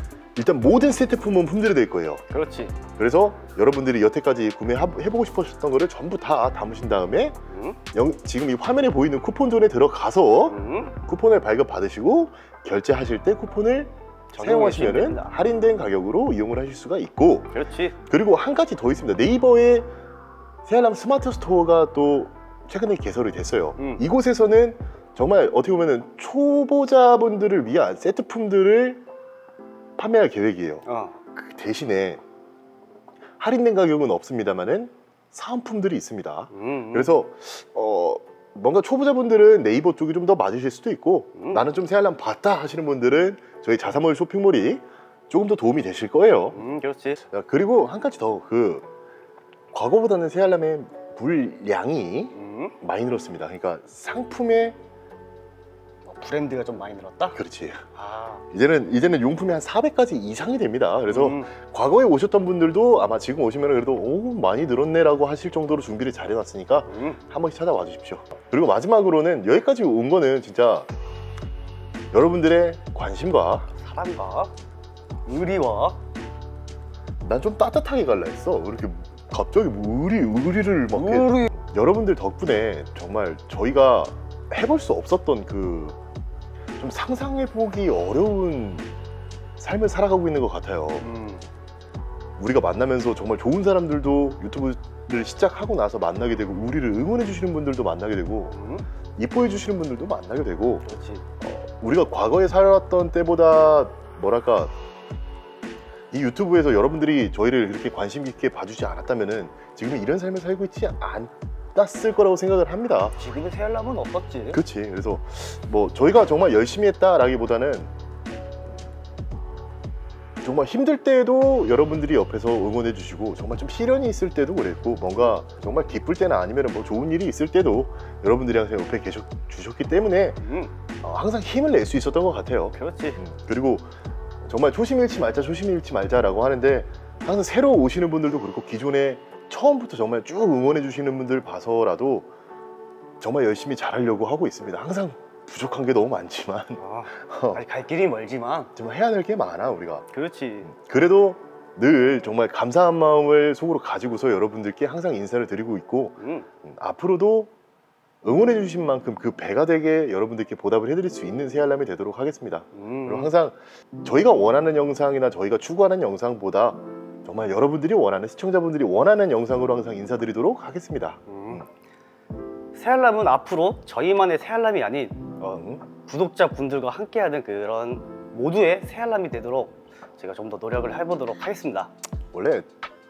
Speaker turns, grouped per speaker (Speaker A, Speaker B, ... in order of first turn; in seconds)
Speaker A: 0.3-2.2, 3.0-7.4, 7.9-19.9, 20.6-29.0, 30.0-32.2, 33.4-46.6, 47.3-48.9, 49.7-54.8, 57.3-57.8, 58.5-70.9, 72.1-73.7, 77.2-86.0, 86.8-88.9, 89.6-91.1, 92.4-98.6, 99.2-100.8, 101.4-104.7, 106.1-113.1, 114.5-117.9, 120.4-130.4, 131.0-133.9, 134.4-142.3, 143.2-147.6, 148.8-150.1, 150.7-157.5, 158.2-171.7, 175.4-175.8, 182.3-182.7
Speaker B: 2.3-2.7, 7.5-7.8, 10.5-10.9, 14.3-15.3, 17.5-17.9, 23.8-24.0, 30.9-31.2, 36.5-37.1, 41.4-41.6, 46.5-47.2, 52.3-52.7, 56.0-57.4, 57.9-58.4, 61.1-61.5, 66.9-67.2, 73.7-74.5, 75.2-76.0, 80.9-81.5, 91.0-91.4, 98.5-98.8, 100.8-101.2, 113.1-114.6, 130.4-130.7, 132.7-133.2, 146.8-148.7, 150.1-150.7, 156.2-156.5, 162.7-163.3, 171.3-171.6, 172.7-175.2, 176.0-181.9